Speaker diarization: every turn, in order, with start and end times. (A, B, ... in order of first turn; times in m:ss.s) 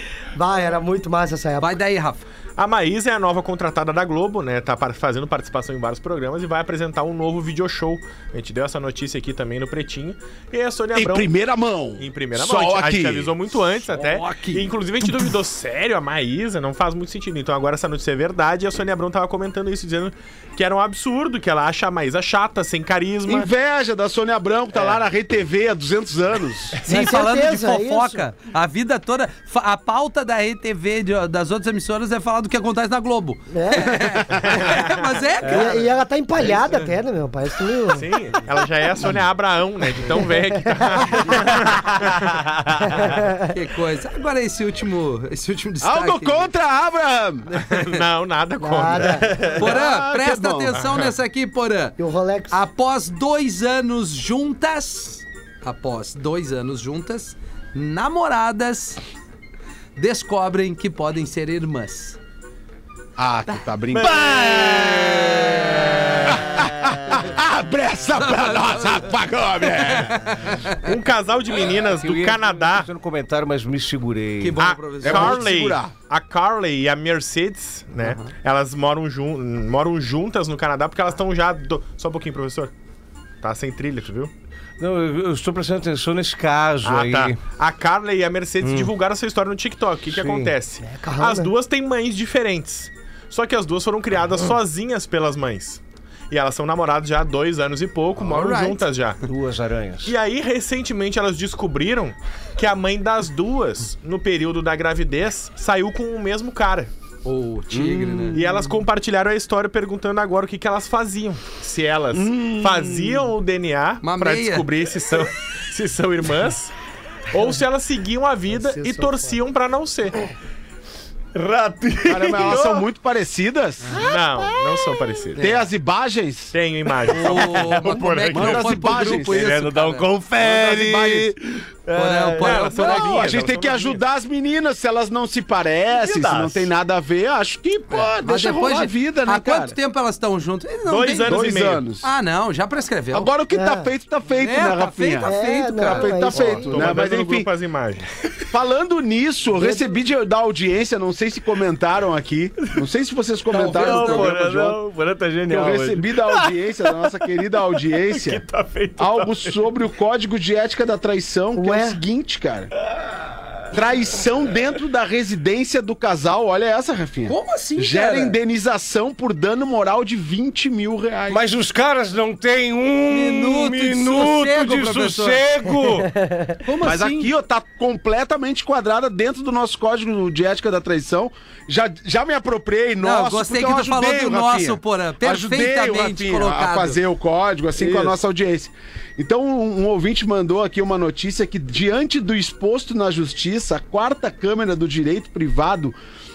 0:00.3-0:01.7 A
0:01.6-0:02.2 B
0:02.6-0:11.3 C
0:11.0-0:13.3 D
0:12.0-0:23.5 C
0:14.0-0:14.6 B
0:23.3-0:26.8 D
0:26.9-0:28.2 A
0:26.9-0:35.9 B
0:33.5-0:34.5 A
0:34.5-0:35.0 C
0:35.4-0:38.1 A
0:37.9-0:42.3 C
0:40.6-0:41.6 A
0:42.8-0:43.4 A
0:43.5-0:46.5 B
0:45.8-0:47.5 D
0:47.7-0:49.6 C
0:48.6-0:49.4 A
0:49.4-0:50.8 D
0:49.6-0:52.0 B
0:50.7-0:51.1 C
0:52.0-0:52.6 A
0:52.5-0:59.0 B
1:00.0-1:02.2 B
1:03.2-1:05.2 D
1:03.9-1:04.5 C
1:04.0-1:07.3 E
1:06.2-1:10.3 D
1:08.2-1:09.1 B
1:09.8-1:10.8 B
1:10.8-1:12.9 C
1:11.7-1:14.6 E
1:14.4-1:15.4 B
1:14.6-1:22.7 C
1:15.0-1:15.9 D
1:18.0-1:18.3 B
1:23.4-1:24.3 C
1:24.8-1:27.4 E
1:26.8-1:39.2 C
1:28.6-1:28.9 E
1:30.1-1:30.6 E
1:30.8-1:31.5 A
1:38.2-1:38.8 B
1:39.3-1:40.2 E
1:40.0-1:46.9 C
1:47.2-1:48.4 B
1:48.4-1:56.7 C
1:52.2-1:52.9 D
1:54.0-1:54.7 B
1:57.3-2:00.2 C
1:58.7-1:59.2 A
2:01.3-2:02.9 E
2:02.0-2:04.0 D
2:04.0-2:05.5 C
2:04.0-2:04.8 E
2:05.4-2:05.6 B
2:05.4-2:06.5 D
2:06.5-2:08.8 C
2:07.1-2:10.1 B
2:07.3-2:13.3 E
2:08.3-2:09.6 D
2:10.4-2:11.3 D
2:11.9-2:13.3 B
2:12.4-2:14.0 C
2:12.9-2:19.8 D
2:15.9-2:16.7 E
2:18.2-2:21.5 B
2:20.9-2:21.8 C
2:21.3-2:22.1 D
2:22.0-2:23.3 B
2:23.1-2:27.5 D
2:23.5-2:23.9 A
2:24.3-2:26.8 B
2:25.2-2:26.9 A
2:26.6-2:28.0 C
2:28.5-2:34.4 D
2:33.5-2:36.5 E
2:33.6-2:34.3 B
2:33.6-2:34.8 C
2:35.5-2:38.4 D
2:38.2-2:39.3 C
2:38.3-2:38.9 E
2:39.0-2:42.7 D
2:41.6-2:42.0 A
2:43.7-2:51.4 D
2:47.3-2:48.4 B
2:51.3-2:56.1 E
2:53.1-2:55.4 B
2:56.2-2:56.6 A
2:56.6-2:57.3 B
2:56.8-3:16.0 D
3:03.0-3:07.0 B
3:07.8-3:08.1 B